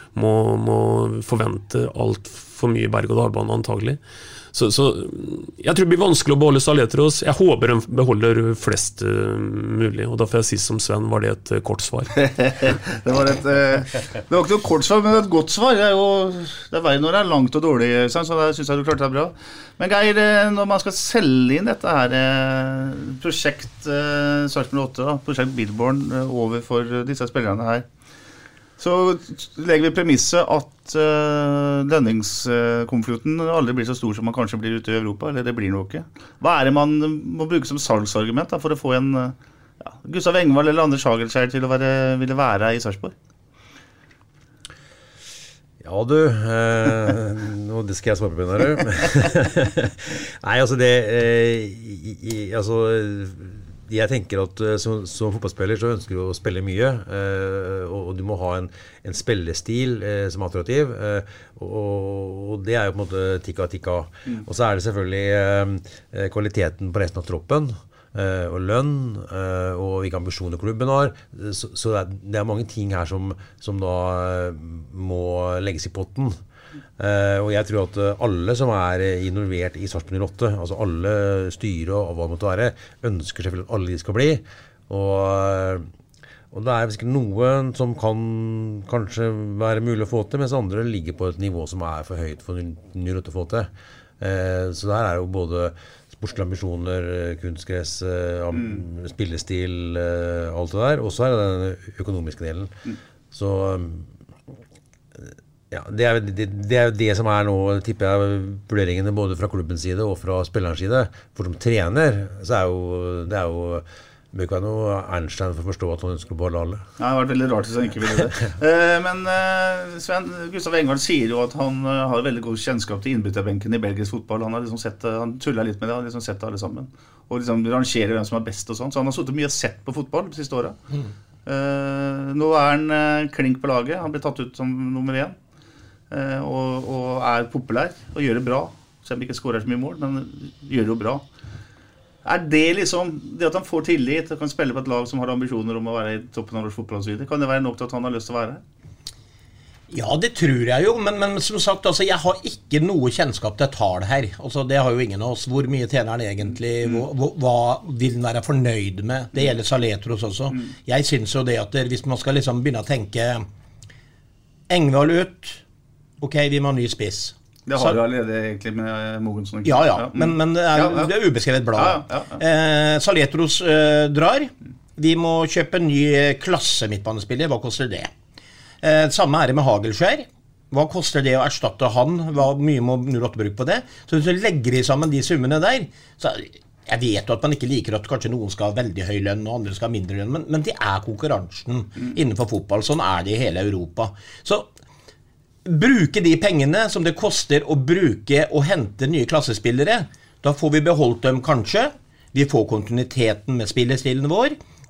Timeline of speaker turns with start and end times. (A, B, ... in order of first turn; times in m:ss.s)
0:00.1-0:04.0 A
0:04.5-0:12.2 A
0:12.2-0:27.8 B
0:28.8-0:39.4 B
0:39.9-0:43.1 B
0:45.8-1:16.4 C
1:17.0-1:25.9 C
1:26.5-1:42.8 C
1:38.5-1:38.8 B
1:43.3-1:44.1 C
1:45.2-1:56.8 C
1:57.0-2:10.8 B
1:58.1-1:58.5 C
2:11.4-2:15.4 B
2:16.1-2:21.2 B
2:22.2-2:28.6 B
2:29.9-2:43.4 D
2:44.7-2:45.6 D
2:46.2-2:48.0 D
2:47.7-2:51.1 B
2:49.6-2:58.1 D
2:51.7-2:52.4 B
2:58.8-3:14.7 D
3:15.6-3:24.6 D